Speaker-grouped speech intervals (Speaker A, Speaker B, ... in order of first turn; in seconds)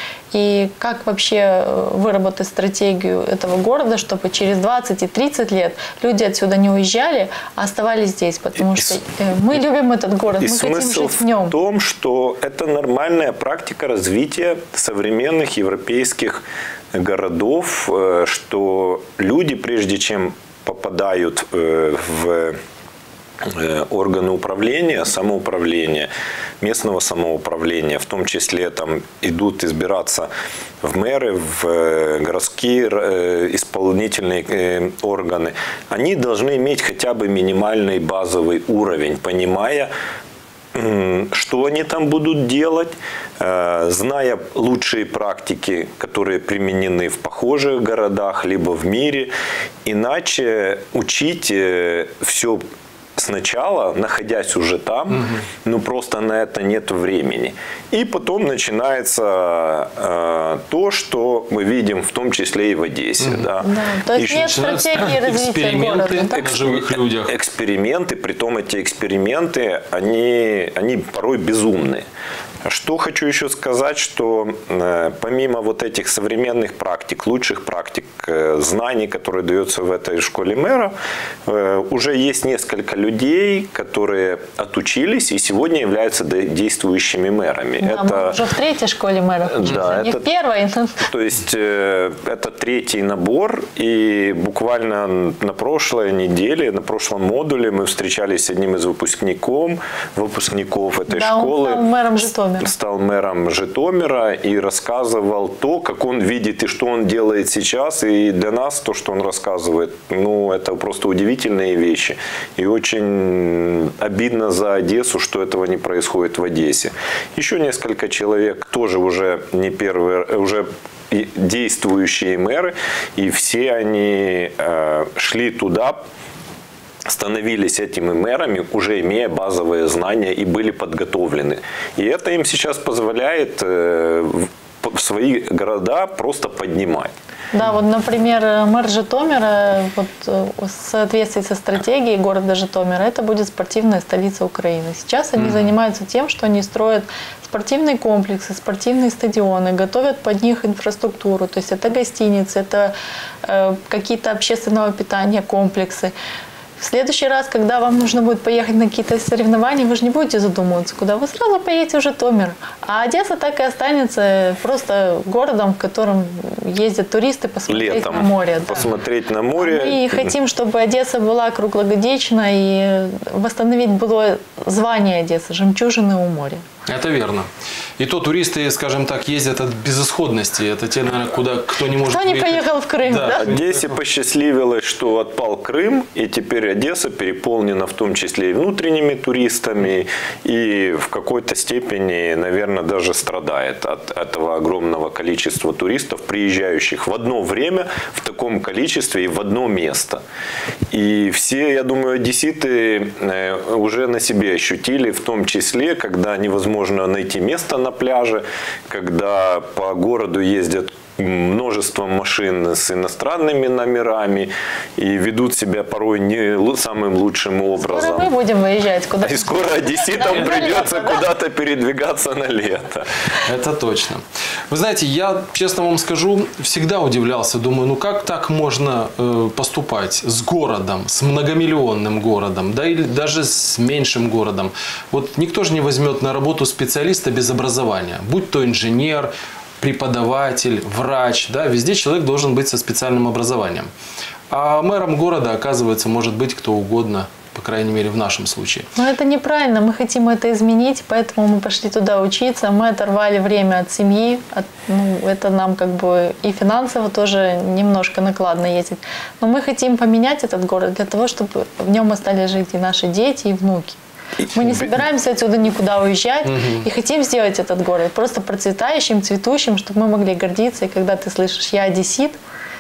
Speaker A: 0.3-11.6, 63.6-66.4, 87.8-91.0, 101.1-102.7, 137.5-152.9, 153.4-156.1, 156.8-168.8, 169.6-176.6, 182.0-183.4, 217.8-221.2, 249.0-264.0, 264.5-272.4
Speaker B: 10.4-22.6, 23.4-30.3, 30.8-39.9, 40.7-49.3, 49.9-52.6, 53.2-64.6, 66.4-72.0, 72.7-80.9, 81.5-88.4, 89.5-90.2, 91.0-101.9, 102.6-126.0, 127.1-137.1, 167.7-170.3, 183.4-200.2, 200.9-218.3, 219.2-223.1
Speaker C: 63.2-63.5, 64.2-67.3, 176.9-183.9, 223.5-243.9, 244.5-248.9, 266.5-266.9